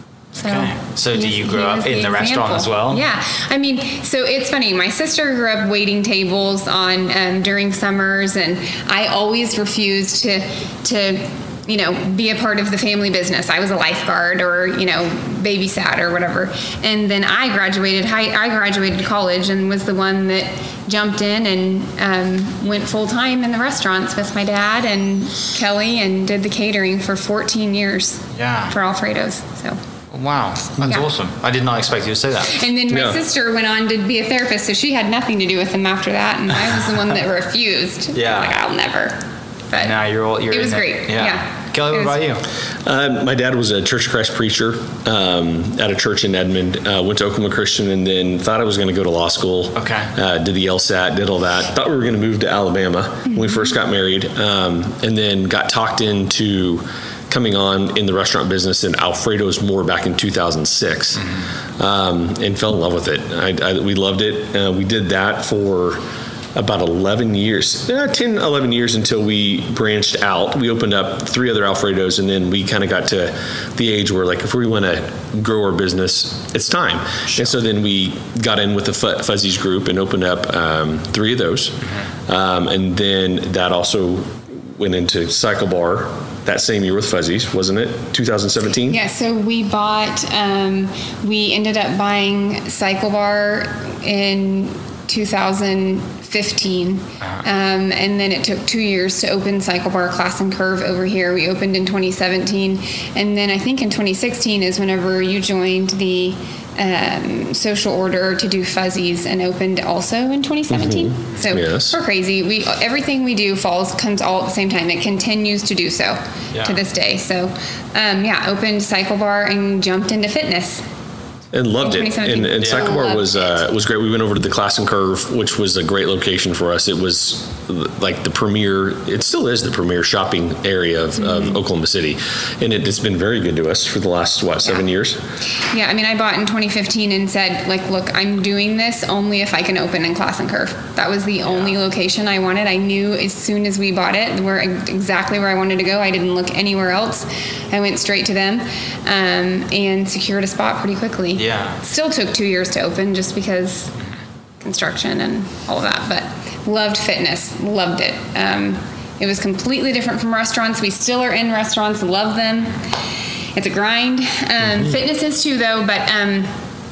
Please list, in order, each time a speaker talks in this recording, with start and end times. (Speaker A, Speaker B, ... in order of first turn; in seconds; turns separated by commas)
Speaker A: 0.3-29.8, Speaker B: 0.4-3.0, Speaker B: 28.3-28.7, Speaker B: 30.1-32.5, Speaker A: 30.8-31.1, Speaker A: 32.4-40.0, Speaker C: 32.9-33.2, Speaker B: 38.1-38.5, Speaker B: 39.8-42.4, Speaker A: 40.5-42.2, Speaker C: 42.8-66.0, Speaker B: 49.8-50.1, Speaker C: 66.5-89.0, Speaker A: 88.9-120.8, Speaker C: 110.7-112.0, Speaker B: 116.5-116.8, Speaker C: 121.5-135.2, Speaker A: 121.8-123.6, Speaker B: 122.6-122.8, Speaker A: 131.2-131.6, Speaker A: 135.7-153.9, Speaker B: 151.4-151.8, Speaker A: 154.6-162.9, Speaker A: 163.5-166.5